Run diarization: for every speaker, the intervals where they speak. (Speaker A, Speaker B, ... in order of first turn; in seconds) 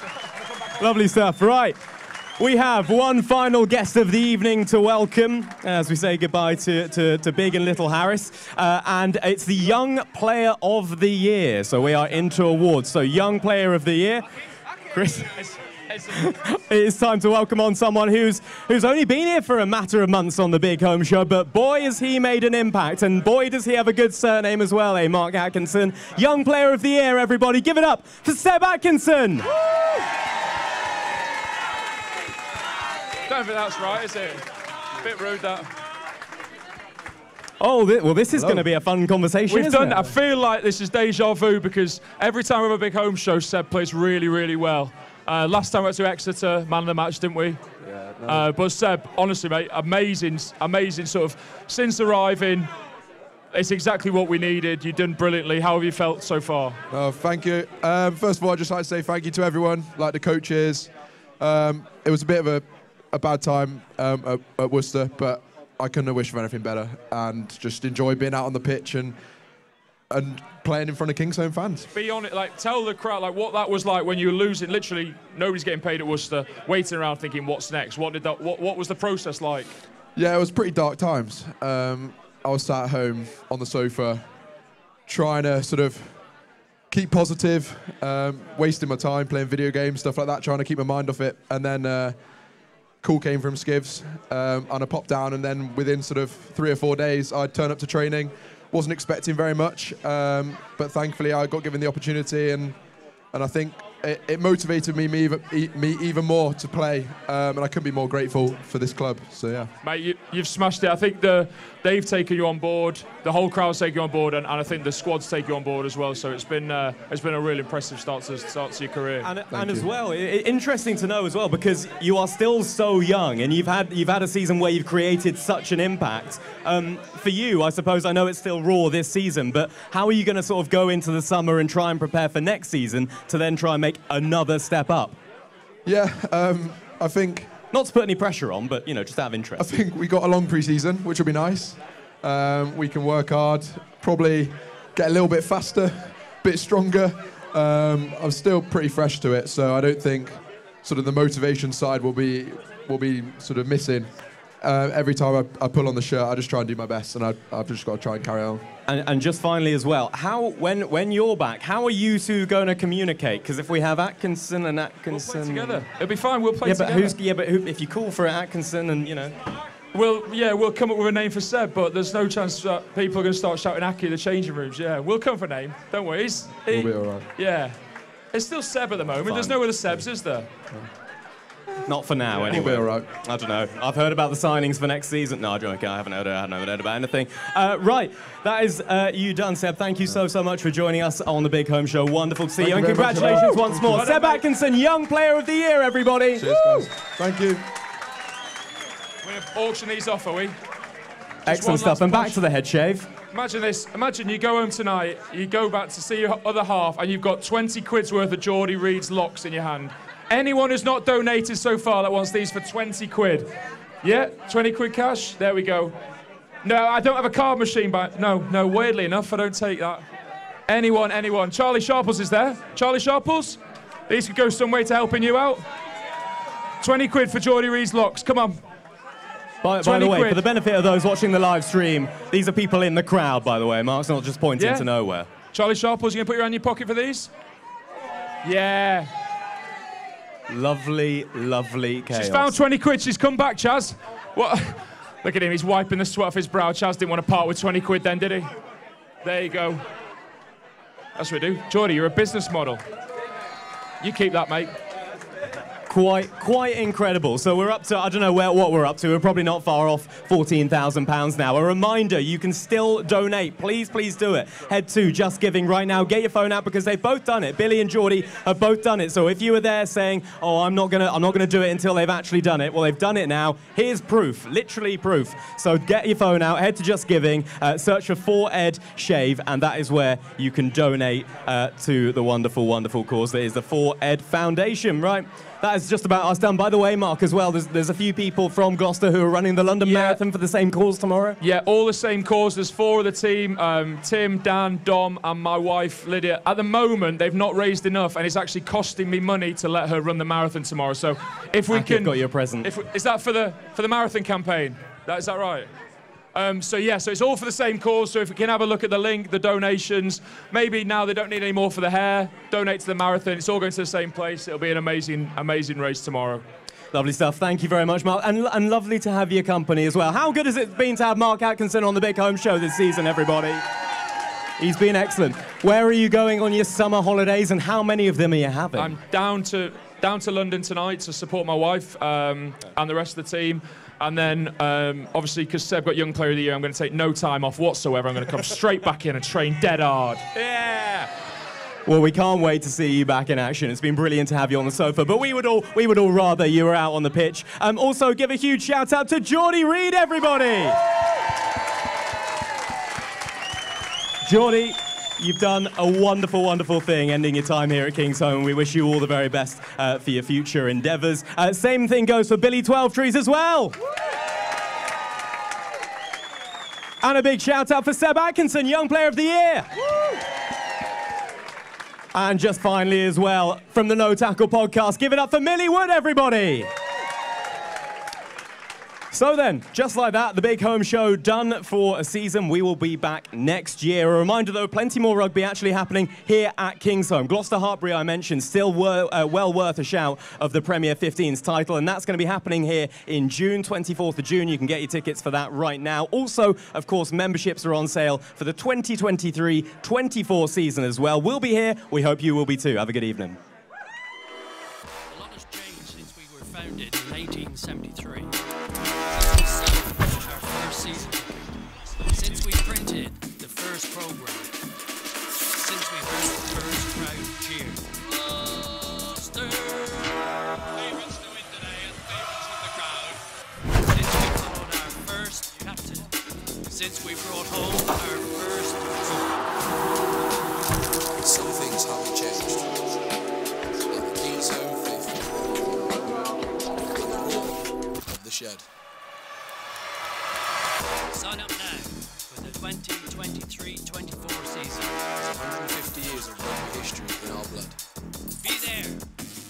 Speaker A: 0.7-1.8, 2.4-14.3, 14.9-15.4, 16.1-29.5, 37.6-40.0, 119.2-135.2, 137.7-139.7, 158.9-165.9, 166.7-169.4, 179.3-179.6, 181.9-196.8, 201.5-203.1, 229.6-235.3, 240.5-242.6, 255.9-291.4, 301.7-302.7, 316.9-323.6, 324.6-329.0, 341.9-350.8, 354.2-363.8, 367.0-369.7, 372.1-376.7, 379.1-403.4
Speaker B: 15.4-16.3, 33.3-34.4, 35.0-35.7, 39.5-47.6, 48.2-52.7, 53.5-56.8, 71.9-79.8, 109.8-119.3, 165.1-167.2, 169.9-177.8, 178.3-180.5, 182.4-182.7, 193.9-194.4, 199.2-200.6, 201.5-202.4, 203.3-213.5, 214.0-216.0, 216.6-220.0, 220.7-223.6, 224.1-225.6, 226.8-228.6, 229.8-230.4, 234.6-234.9, 235.5-237.3, 238.4-239.1, 242.1-248.5, 249.2-249.8, 251.2-252.8, 254.0-254.7, 289.9-290.2, 291.4-305.7, 306.4-316.4, 328.8-341.1
Speaker C: 38.3-38.7, 47.8-48.5, 56.9-69.2, 70.1-71.9, 80.2-84.2, 85.1-86.2, 86.9-92.2, 93.0-102.8, 103.3-109.7, 119.5-119.9, 135.8-137.5, 139.6-158.7, 176.7-177.3, 182.4-183.1, 192.6-194.1, 196.4-197.6
Speaker D: 405.1-408.3, 409.1-414.5, 415.5-423.2, 423.8-426.1, 426.7-429.5, 441.1-445.0, 448.4-449.0
Speaker E: 431.2-432.9, 433.9-436.3, 436.9-438.7, 445.1-447.8